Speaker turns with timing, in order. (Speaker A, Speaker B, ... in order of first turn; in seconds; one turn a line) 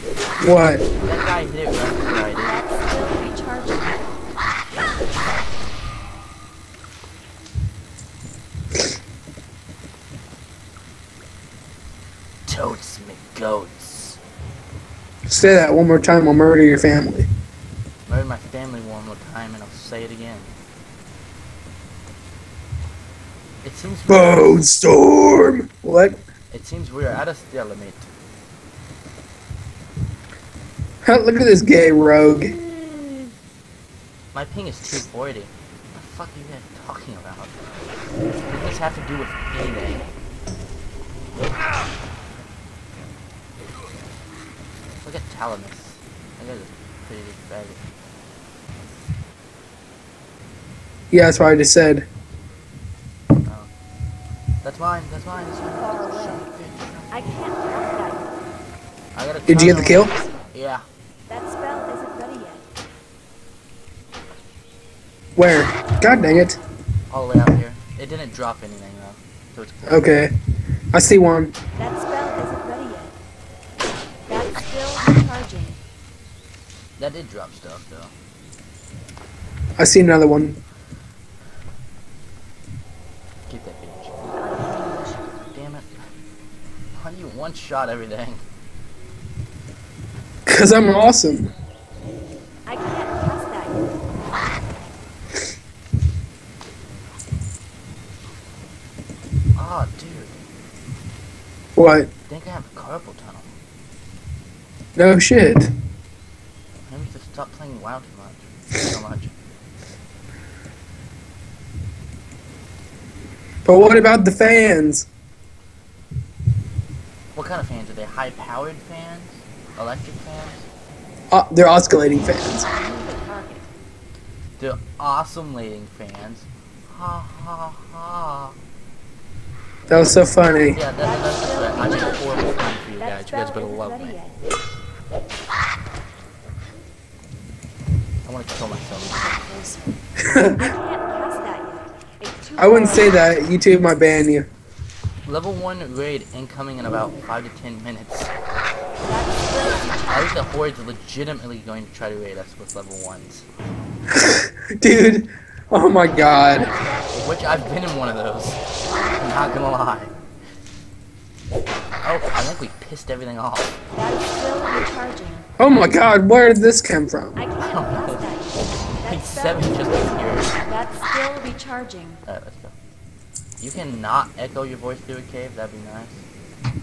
Speaker A: 0.4-0.8
Speaker B: 1.0-2.6
Speaker C: 2.4-4.1
Speaker B: 4.7-5.4
Speaker B: 12.4-14.2
Speaker A: 15.2-17.3
Speaker B: 18.1-20.5
Speaker B: 23.6-24.6
Speaker A: 24.1-26.2
Speaker B: 26.5-28.1
Speaker A: 31.0-32.5
Speaker B: 34.3-37.6
Speaker B: 38.4-40.1
Speaker B: 45.0-47.8
Speaker A: 51.1-52.0
Speaker B: 53.4-53.7
Speaker B: 54.6-57.3
Speaker C: 55.6-56.5
Speaker C: 57.1-58.4
Speaker B: 59.1-60.8
Speaker A: 59.5-60.1
Speaker C: 61.3-62.6
Speaker A: 65.3-66.6
Speaker B: 67.1-70.2
Speaker A: 69.9-70.3
Speaker A: 70.9-71.5
Speaker C: 71.8-73.2
Speaker C: 74.3-75.8
Speaker B: 77.0-78.1
Speaker A: 79.8-80.6
Speaker B: 83.5-84.2
Speaker C: 84.4-85.2
Speaker B: 85.5-85.9
Speaker B: 86.9-88.4
Speaker A: 90.5-91.5
Speaker C: 92.7-93.9
Speaker B: 99.5-100.4
Speaker A: 101.8-102.1
Speaker B: 102.3-103.5
Speaker A: 105.0-105.7
Speaker B: 106.9-109.3
Speaker A: 113.6-115.1
Speaker B: 117.3-120.7
Speaker A: 121.3-122.7
Speaker C: 122.5-123.7
Speaker B: 124.6-128.6
Speaker A: 129.9-130.8
Speaker B: 130.7-134.2
Speaker C: 131.0-134.4
Speaker B: 138.2-139.3
Speaker C: 138.9-143.2
Speaker A: 140.2-140.7
Speaker A: 142.6-144.5
Speaker B: 145.2-148.3
Speaker C: 149.0-150.3
Speaker B: 149.8-153.4
Speaker A: 154.1-156.7
Speaker C: 156.5-157.8
Speaker B: 157.1-158.6
Speaker B: 159.2-160.1
Speaker B: 162.0-163.8
Speaker C: 163.9-165.5
Speaker A: 165.6-167.3
Speaker C: 167.3-172.2
Speaker B: 167.6-168.3
Speaker B: 169.0-170.5
Speaker B: 172.2-172.7
Speaker B: 173.6-176.2